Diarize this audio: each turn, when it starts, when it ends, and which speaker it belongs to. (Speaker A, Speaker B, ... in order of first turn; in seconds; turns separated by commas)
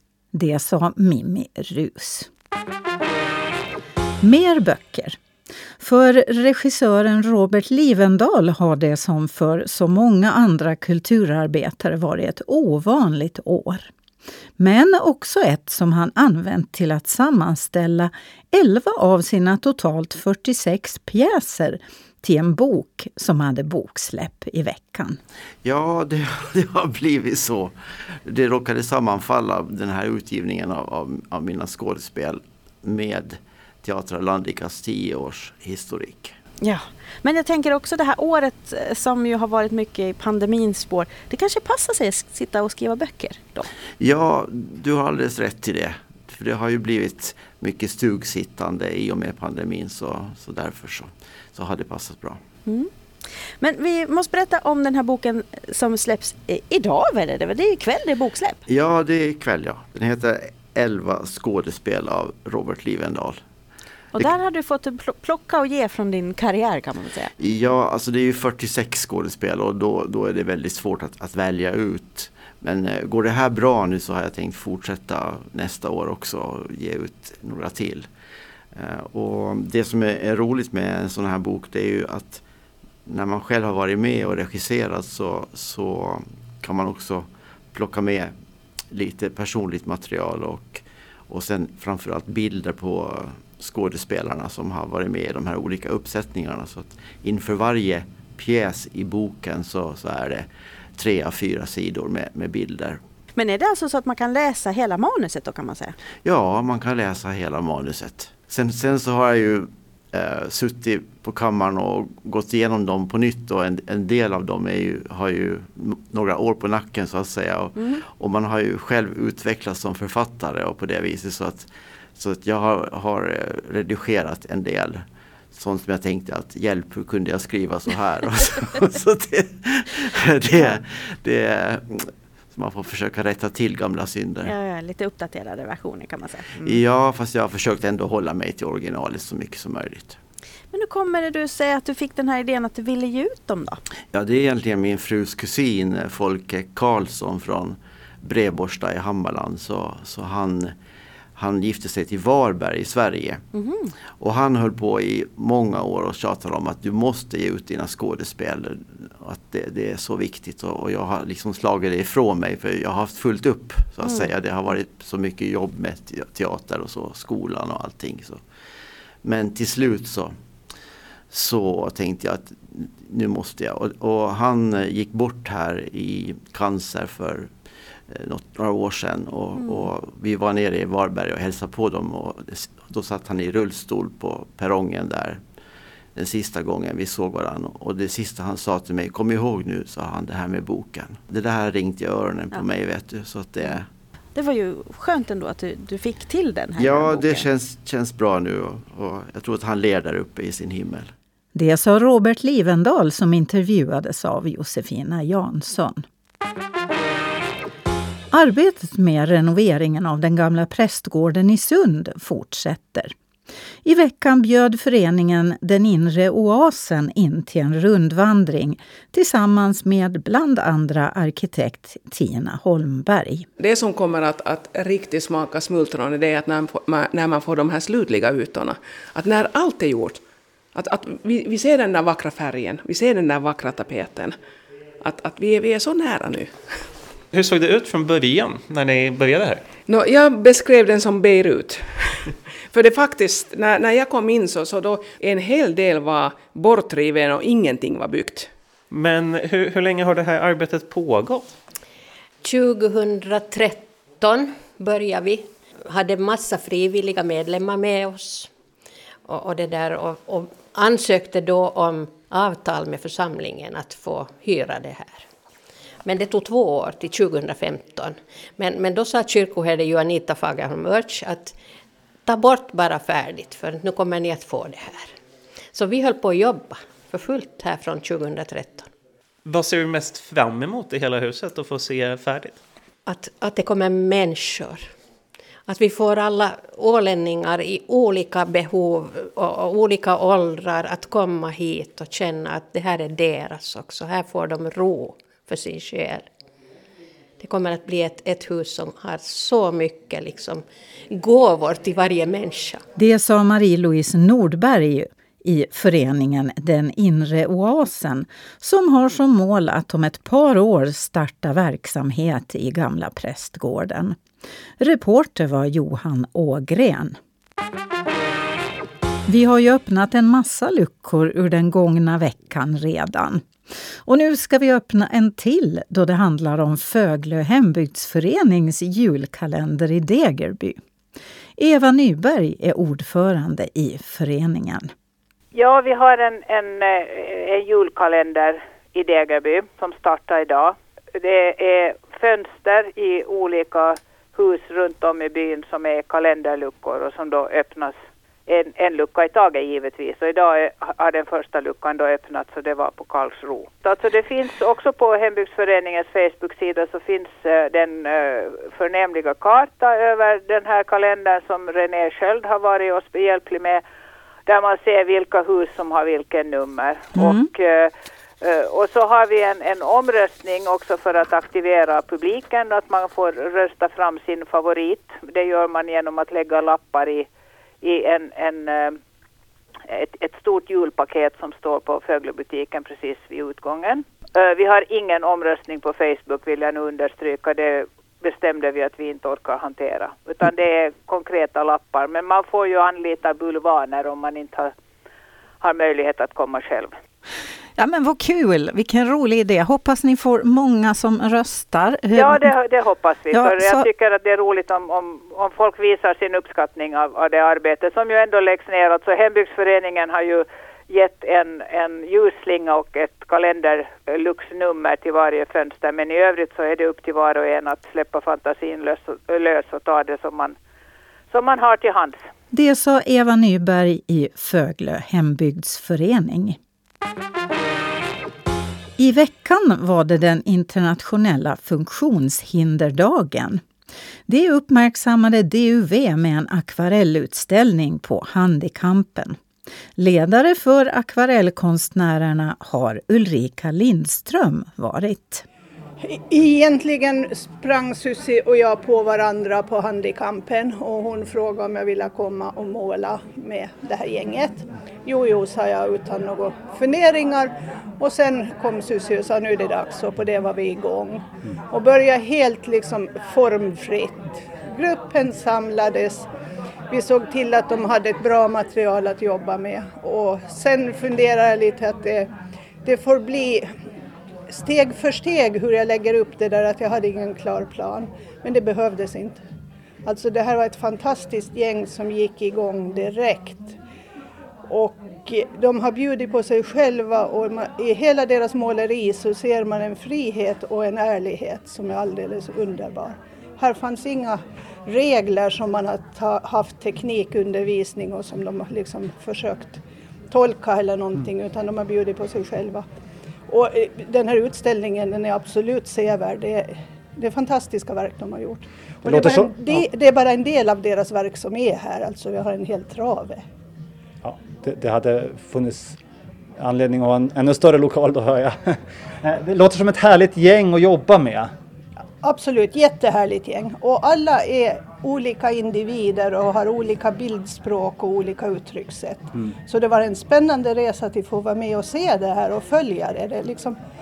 Speaker A: 0.3-2.3, Speaker A: 4.2-5.2, Speaker A: 5.8-13.9, Speaker A: 14.6-25.2, Speaker B: 25.6-27.7, Speaker B: 28.2-36.4, Speaker C: 36.6-43.7, Speaker B: 44.0-52.4, Speaker C: 53.6-58.6, Speaker B: 58.7-63.4, Speaker C: 64.1-67.3, Speaker B: 67.4-78.1, Speaker B: 78.7-82.4, Speaker B: 83.0-88.3, Speaker B: 88.9-103.0, Speaker C: 103.3-105.9, Speaker B: 106.2-134.5, Speaker C: 134.4-136.8, Speaker B: 136.6-140.2, Speaker C: 140.7-143.8, Speaker B: 144.1-150.7, Speaker B: 151.3-153.4, Speaker C: 153.5-153.9, Speaker B: 154.2-168.4, Speaker C: 164.0-164.3, Speaker B: 169.2-170.3, Speaker B: 171.3-177.5, Speaker B: 178.1-185.4, Speaker B: 186.2-193.9, Speaker C: 194.3-197.5, Speaker B: 196.8-201.1, Speaker A: 201.5-206.0, Speaker A: 208.3-213.1, Speaker A: 213.8-223.5, Speaker D: 223.6-230.2, Speaker D: 230.7-234.3, Speaker D: 235.0-236.9, Speaker E: 237.3-239.6, Speaker D: 239.8-248.5, Speaker E: 248.9-251.5, Speaker F: 252.4-258.5, Speaker F: 259.3-265.3, Speaker F: 266.0-271.6, Speaker F: 272.2-275.1, Speaker F: 275.7-278.9, Speaker E: 279.4-282.6, Speaker F: 283.1-284.9, Speaker F: 285.7-296.3, Speaker F: 297.4-302.8, Speaker A: 302.9-314.2, Speaker A: 314.8-317.2, Speaker A: 319.2-323.4, Speaker A: 324.0-330.8, Speaker A: 331.6-334.9, Speaker G: 335.5-363.8, Speaker G: 364.4-377.3, Speaker A: 367.1-367.5, Speaker G: 377.8-379.0, Speaker G: 379.9-394.7, Speaker G: 395.6-396.9, Speaker A: 397.8-402.5, Speaker G: 402.1-420.6, Speaker A: 403.3-403.9, Speaker G: 421.3-422.2, Speaker A: 422.5-426.6, Speaker A: 429.0-433.6, Speaker A: 434.3-439.4, Speaker A: 440.0-445.4, Speaker H: 446.0-466.3, Speaker H: 466.9-472.3, Speaker H: 472.8-473.7, Speaker H: 474.5-479.4, Speaker H: 480.0-483.8, Speaker H: 484.7-499.8, Speaker H: 500.3-502.8, Speaker H: 503.5-513.4, Speaker I: 509.1-509.9, Speaker I: 514.2-516.0, Speaker I: 516.6-521.5, Speaker H: 522.2-533.8